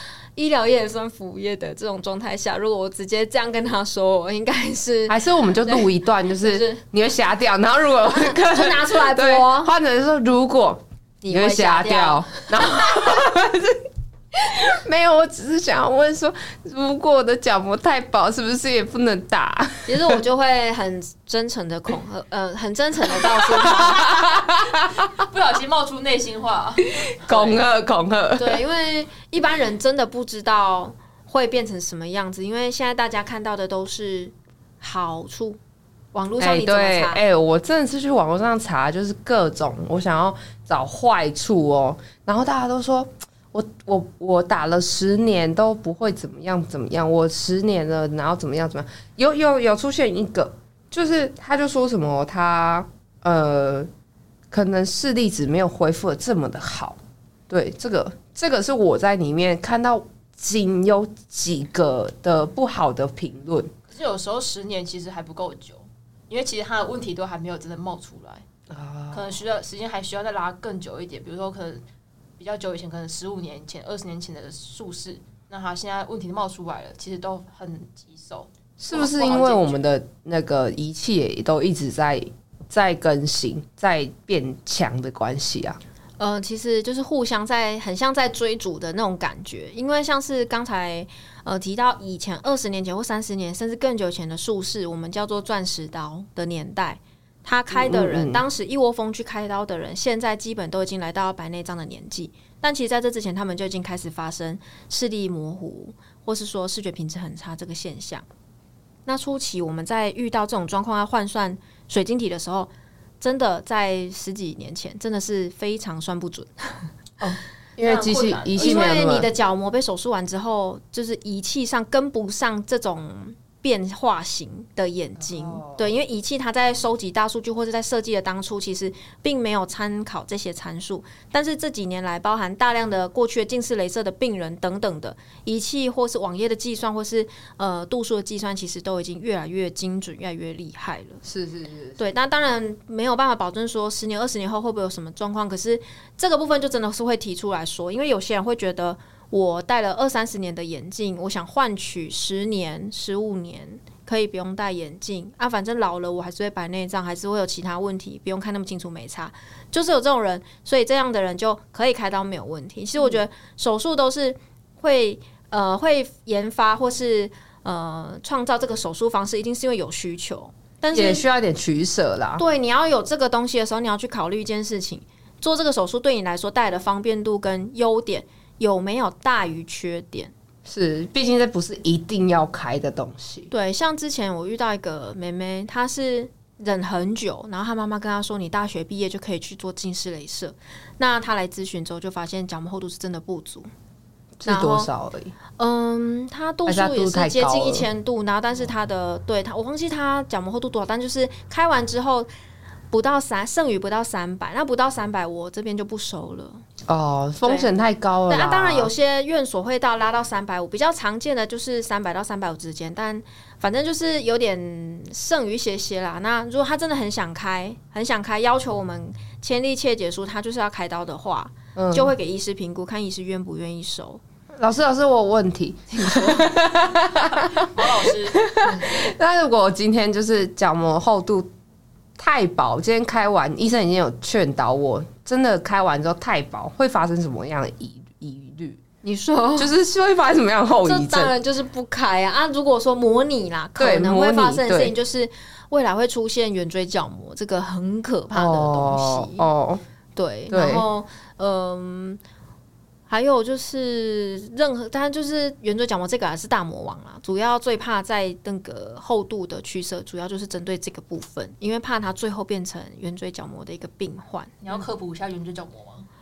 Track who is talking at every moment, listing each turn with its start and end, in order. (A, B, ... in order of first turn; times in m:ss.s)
0:00.3-0:06.8 A
0:05.1-0:13.8 B
0:08.0-0:09.7 A
0:11.2-0:13.0 A
0:14.5-0:20.2 B
0:19.8-0:24.4 A
0:23.5-0:25.1 B
0:25.1-0:27.6 C
0:27.2-0:28.6 B
0:28.4-0:35.6 A
0:36.1-0:37.2 A
0:36.4-0:53.9 B
0:54.5-0:57.0 B
0:57.5-1:03.7 B
1:03.9-1:08.4 C
1:08.7-1:09.3 B
1:09.1-1:11.8 C
1:12.4-1:19.8 C
1:18.8-1:25.8 B
1:26.2-1:48.2 A
1:37.7-1:38.4 B
1:49.0-1:56.9 A
1:57.2-1:59.3 B
1:57.8-1:59.0 C
1:58.6-2:21.2 A
2:05.2-2:05.8 B
2:21.2-2:22.0 B
2:22.0-2:51.2 A
2:50.9-2:52.4 B
2:52.4-3:00.3 A
3:00.6-3:03.5 B
3:03.5-3:13.7 A
3:14.4-3:15.3 B
3:14.4-3:14.9 A
3:15.6-3:22.3 A
3:16.6-3:17.9 B
3:22.9-3:26.6 A
3:26.9-3:28.9 B
3:27.4-3:27.7 A
3:28.3-3:44.2 A
3:41.8-3:42.1 B
3:44.6-3:51.5 B
3:46.1-3:46.4 A
3:47.5-3:48.4 C
3:52.2-3:58.8 B
3:59.0-3:59.7 A
3:59.6-4:01.3 B
4:00.8-4:09.5 A
4:03.8-4:04.9 B
4:08.3-4:09.8 B
4:10.2-4:12.2 A
4:10.5-4:10.8 B
4:13.1-4:24.6 A
4:24.6-4:26.1 C